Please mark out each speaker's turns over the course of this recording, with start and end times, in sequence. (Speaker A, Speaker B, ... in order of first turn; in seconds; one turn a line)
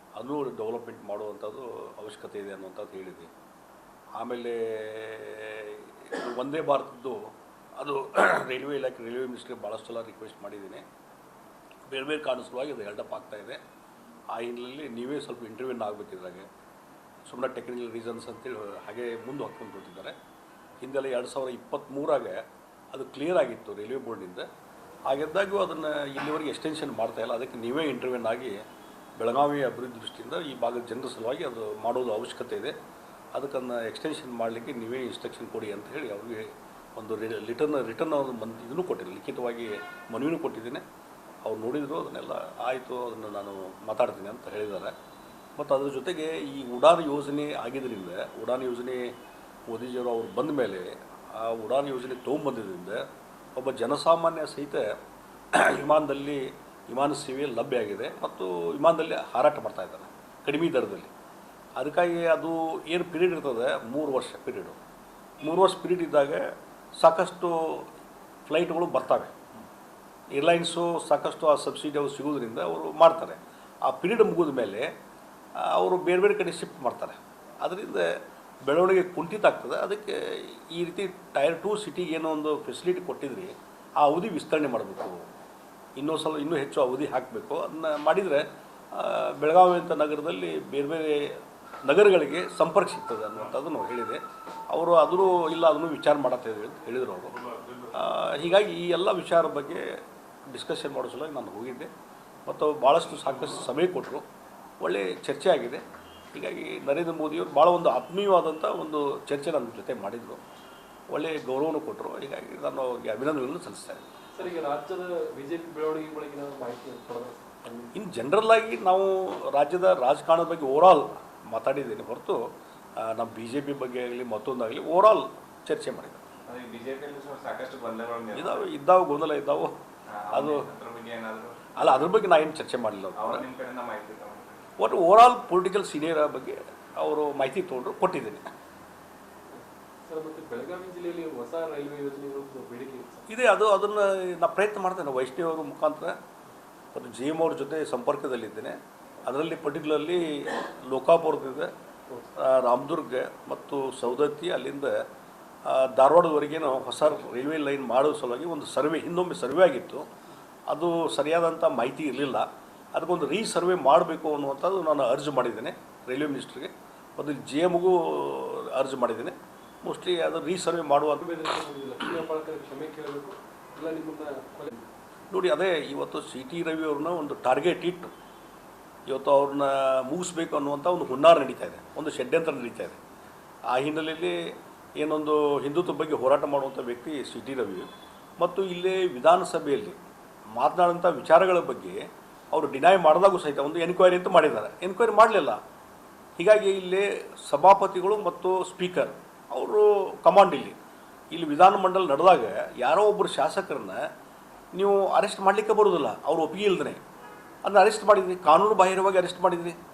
Speaker A: 0.1-3.3
Speaker A: 4.2-10.8
Speaker A: 11.9-13.6
Speaker A: 14.3-16.5
Speaker A: 17.2-20.1
Speaker A: 20.8-22.4
Speaker A: 22.9-24.4
Speaker A: 25.1-28.6
Speaker A: 29.2-32.7
Speaker A: 33.3-40.8
Speaker A: 41.4-44.9
Speaker A: 45.6-49.1
Speaker A: 49.7-53.0
Speaker A: 53.5-54.9
Speaker A: 55.5-61.1
Speaker A: 61.8-64.8
Speaker A: 65.4-66.4
Speaker A: 67.0-67.9
Speaker A: 68.5-69.3
Speaker A: 70.3-74.9
Speaker A: 75.6-78.1
Speaker A: 78.6-85.3
Speaker A: 86.0-94.2
Speaker A: 94.7-99.9
Speaker A: 100.5-101.9
Speaker A: 102.5-104.2
Speaker A: 104.8-105.8
Speaker A: 106.3-110.4
Speaker A: 111.1-114.0
Speaker B: 114.3-118.0
Speaker A: 117.9-122.4
Speaker A: 123.0-126.2
Speaker C: 126.5-128.6
Speaker A: 128.3-129.8
Speaker C: 130.1-132.0
Speaker A: 130.3-130.7
Speaker A: 131.8-133.4
Speaker C: 133.1-134.7
Speaker A: 134.8-138.5
Speaker B: 139.5-143.2
Speaker A: 143.3-146.2
Speaker A: 146.9-151.7
Speaker A: 152.4-154.9
Speaker A: 155.6-160.1
Speaker A: 160.7-171.2
Speaker B: 171.2-174.8
Speaker A: 175.3-178.1
Speaker A: 179.1-183.0
Speaker A: 183.7-187.9
Speaker A: 188.4-190.0
Speaker A: 190.6-192.0
Speaker A: 192.5-195.6
Speaker A: 196.4-200.8
Speaker A: 201.3-204.0
Speaker A: 204.7-207.0
Speaker A: 207.6-209.8